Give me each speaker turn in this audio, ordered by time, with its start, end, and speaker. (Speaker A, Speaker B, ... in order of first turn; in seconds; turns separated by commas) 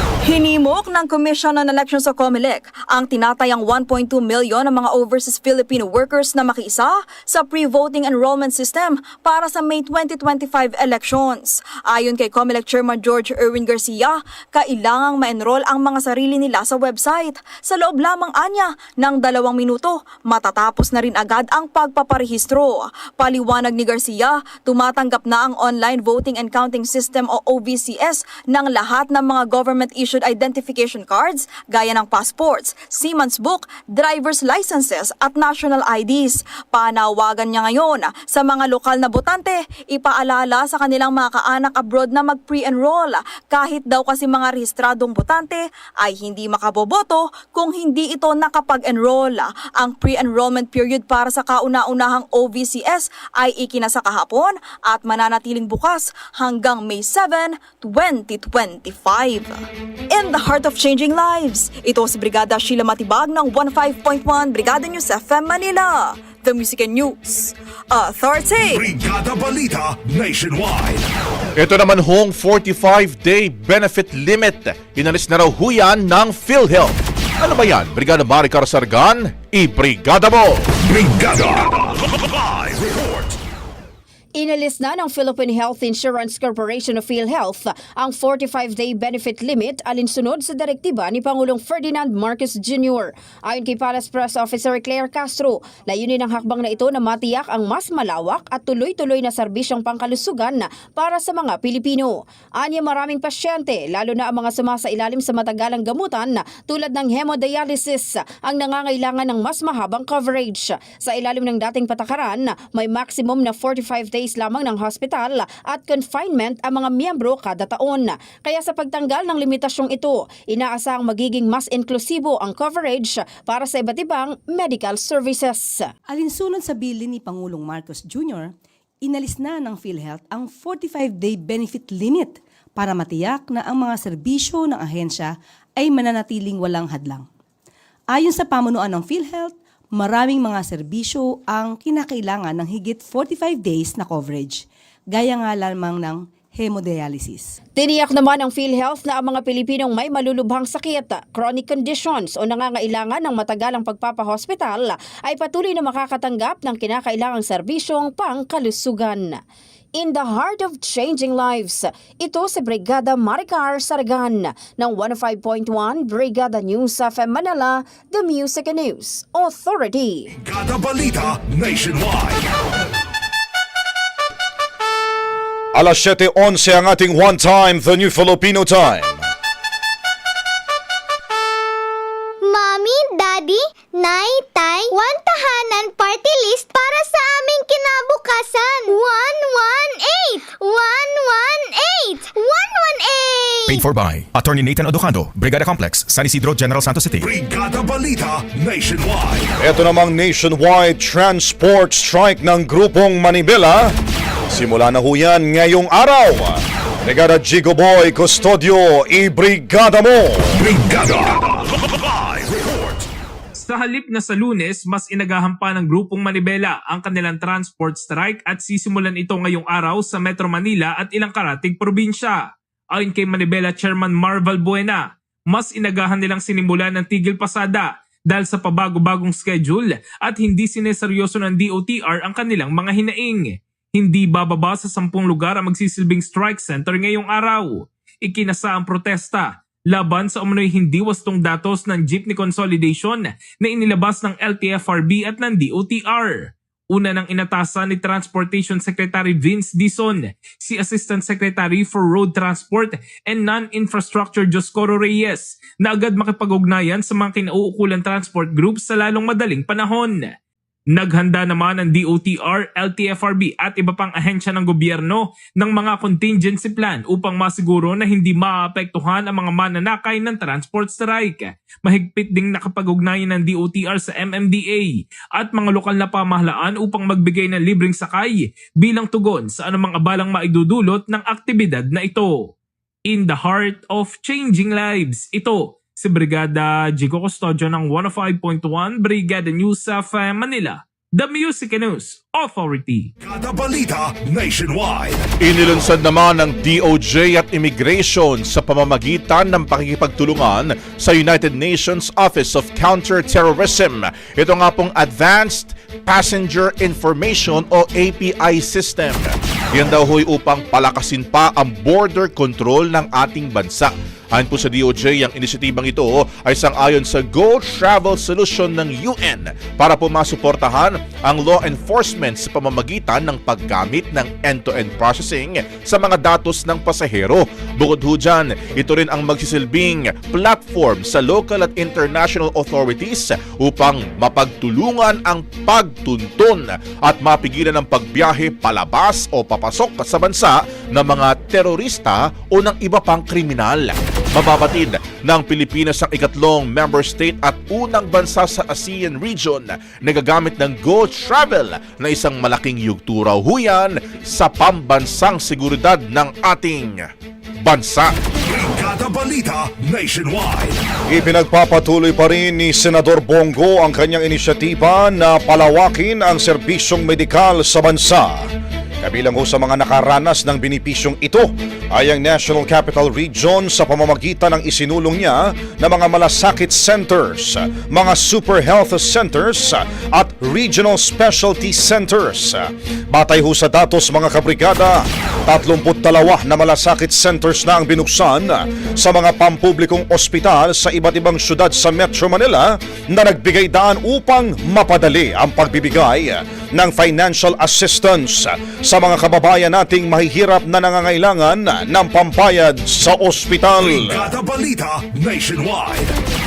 Speaker A: 0.2-68.9, Speaker B: 68.7-71.1, Speaker C: 71.6-80.7, Speaker B: 80.8-83.4, Speaker D: 84.4-125.9, Speaker E: 126.1-137.3, Speaker E: 138.1-147.5, Speaker D: 147.8-159.4, Speaker D: 160.0-170.3, Speaker B: 170.4-172.5, Speaker F: 175.8-179.2, Speaker G: 182.4-193.8, Speaker H: 193.7-197.3, Speaker B: 197.2-199.5, Speaker F: 199.6-204.0, Speaker F: 204.5-210.6, Speaker B: 210.5-213.1, Speaker I: 213.6-260.3, Speaker I: 260.9-282.5, Speaker I: 283.1-293.1, Speaker B: 293.2-295.3, Speaker C: 295.4-357.0, Speaker C: 357.6-358.1, Speaker B: 358.4-360.8, Speaker F: 361.1-368.5, Speaker F: 369.0-404.3, Speaker B: 403.8-406.1